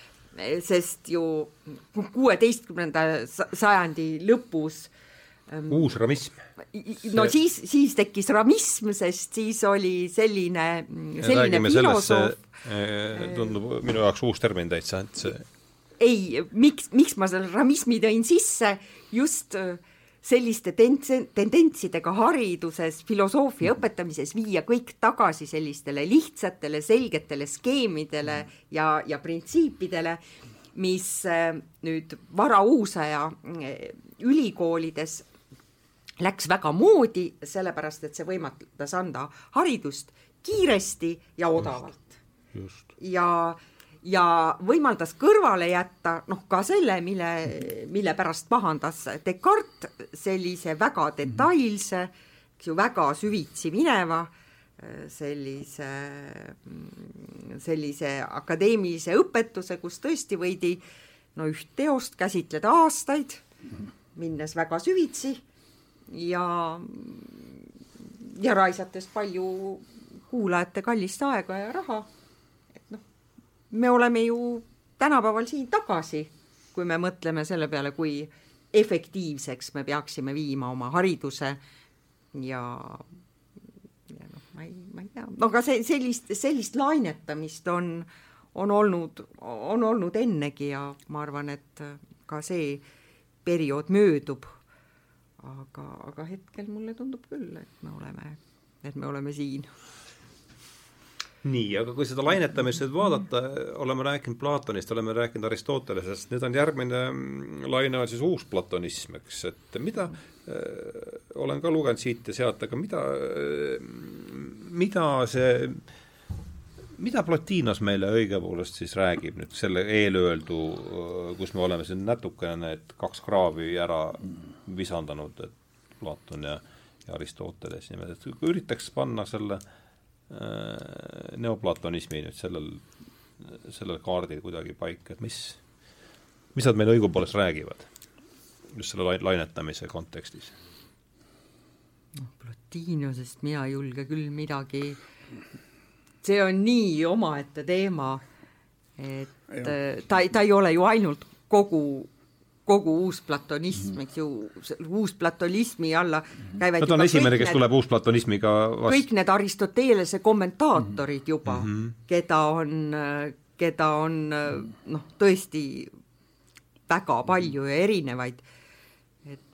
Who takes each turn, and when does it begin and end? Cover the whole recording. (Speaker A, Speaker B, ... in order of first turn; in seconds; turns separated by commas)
Speaker A: 0.3-4.9, Speaker A: 5.5-5.9, Speaker B: 5.7-6.4, Speaker A: 6.6-12.4, Speaker B: 11.2-15.4, Speaker A: 13.2-13.5, Speaker A: 16.0-30.2, Speaker A: 30.7-35.3, Speaker A: 36.2-42.2, Speaker B: 42.5-42.8, Speaker A: 43.0-60.8, Speaker A: 61.3-63.4, Speaker A: 64.2-65.4, Speaker A: 66.1-72.1, Speaker A: 73.7-81.6, Speaker A: 82.3-83.1, Speaker A: 84.1-92.8, Speaker A: 93.4-94.5, Speaker A: 95.4-99.7, Speaker B: 101.4-115.8, Speaker B: 117.0-129.6, Speaker B: 130.3-132.8, Speaker B: 133.4-135.6, Speaker B: 136.6-137.9, Speaker B: 138.7-140.6, Speaker A: 142.2-145.0, Speaker A: 146.2-148.2, Speaker A: 149.0-152.1, Speaker A: 152.7-157.6, Speaker B: 156.8-159.0, Speaker A: 158.9-165.9, Speaker B: 161.5-161.9, Speaker A: 166.9-168.4